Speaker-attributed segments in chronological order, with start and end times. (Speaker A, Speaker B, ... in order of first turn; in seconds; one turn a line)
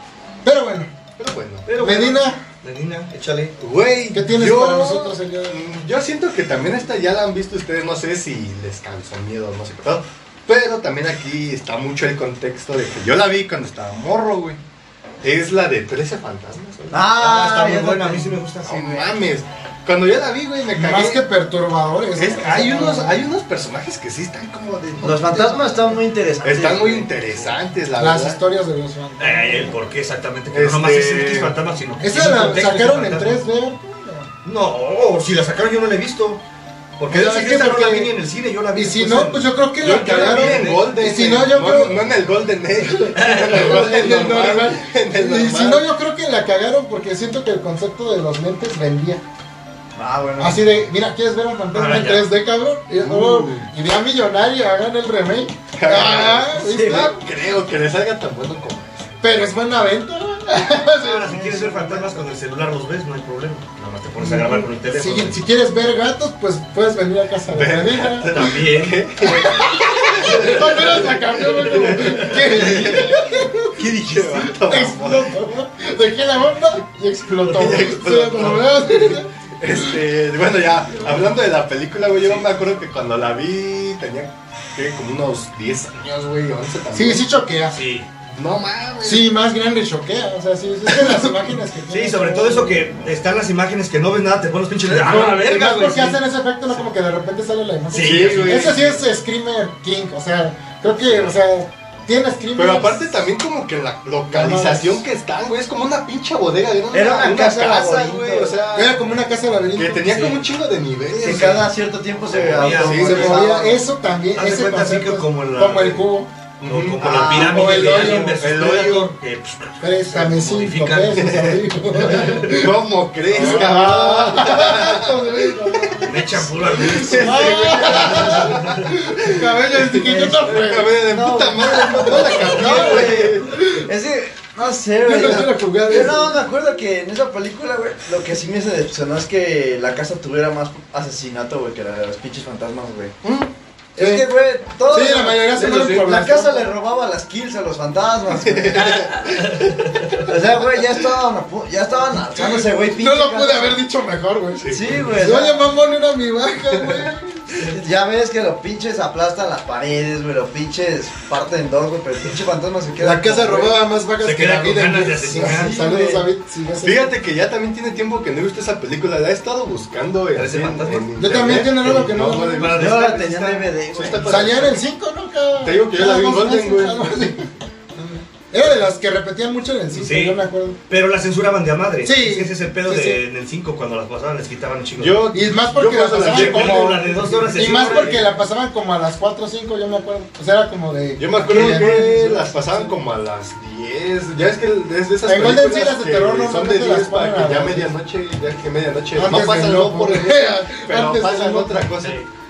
Speaker A: 0.4-0.9
Speaker B: 1.2-1.7
Speaker C: 1.6-3.5
Speaker A: 1.8-2.4
Speaker B: 3.6-14.6
Speaker A: 4.1-5.6
Speaker B: 15.2-17.1
Speaker D: 16.9-18.4
Speaker C: 17.1-19.0
Speaker B: 18.6-21.2
Speaker A: 20.7-23.2
Speaker B: 22.1-25.6
Speaker D: 25.0-27.1
Speaker A: 25.5-25.9
Speaker B: 26.4-28.4
Speaker A: 27.9-29.8
Speaker C: 29.2-33.4
Speaker B: 30.5-31.6
Speaker A: 32.0-34.3
Speaker C: 34.4-36.4
Speaker C: 37.0-40.9
Speaker A: 37.1-38.1
Speaker A: 38.7-42.0
Speaker B: 39.8-45.9
Speaker A: 42.8-49.2
Speaker C: 43.1-43.8
Speaker D: 49.9-50.6
Speaker A: 50.4-57.2
Speaker C: 51.7-52.2
Speaker B: 53.0-53.7
Speaker B: 55.8-59.1
Speaker D: 56.6-57.1
Speaker A: 59.2-62.2
Speaker C: 60.9-65.4
Speaker A: 64.2-68.3
Speaker B: 67.5-75.3
Speaker C: 68.2-69.0
Speaker A: 69.2-79.3
Speaker C: 70.1-70.8
Speaker C: 71.7-73.0
Speaker B: 77.5-87.2
Speaker C: 82.2-82.5
Speaker A: 86.9-87.8
Speaker C: 87.7-88.1
Speaker B: 88.3-89.3
Speaker A: 89.0-92.8
Speaker B: 90.9-91.3
Speaker C: 91.9-96.2
Speaker A: 94.9-103.2
Speaker C: 97.9-99.0
Speaker B: 98.0-98.9
Speaker B: 102.5-109.1
Speaker A: 104.3-105.0
Speaker D: 106.9-108.6
Speaker A: 108.7-110.2
Speaker B: 109.7-111.7
Speaker C: 110.1-110.4
Speaker D: 111.2-113.8
Speaker C: 111.2-111.6
Speaker C: 112.2-113.4
Speaker B: 112.7-113.4
Speaker A: 112.9-116.3
Speaker C: 114.3-116.1
Speaker B: 116.6-119.1
Speaker C: 116.6-122.5
Speaker A: 117.1-118.4
Speaker A: 119.8-122.7
Speaker B: 121.2-133.6
Speaker A: 123.3-131.0
Speaker C: 126.0-128.9
Speaker D: 128.0-128.4
Speaker D: 131.0-143.1
Speaker A: 132.0-133.8
Speaker A: 135.0-136.3
Speaker B: 143.2-143.5
Speaker D: 143.9-149.1
Speaker A: 144.0-144.2
Speaker A: 144.8-146.7
Speaker B: 148.3-149.9
Speaker C: 149.4-150.2
Speaker D: 150.2-153.8
Speaker A: 152.4-157.6
Speaker B: 154.6-155.2
Speaker D: 154.7-155.7
Speaker B: 156.7-157.0
Speaker D: 157.6-163.8
Speaker A: 163.0-167.1
Speaker C: 164.2-165.8
Speaker D: 165.4-166.2
Speaker B: 166.8-174.7
Speaker C: 170.3-172.0
Speaker A: 171.2-172.8
Speaker C: 172.6-173.2
Speaker D: 172.7-174.7
Speaker A: 174.2-180.8
Speaker B: 175.6-177.1
Speaker C: 179.9-185.3
Speaker A: 182.0-183.2
Speaker B: 185.0-188.2
Speaker A: 185.3-192.9
Speaker C: 186.2-188.3
Speaker B: 191.2-202.2
Speaker A: 195.2-197.9
Speaker A: 199.1-201.9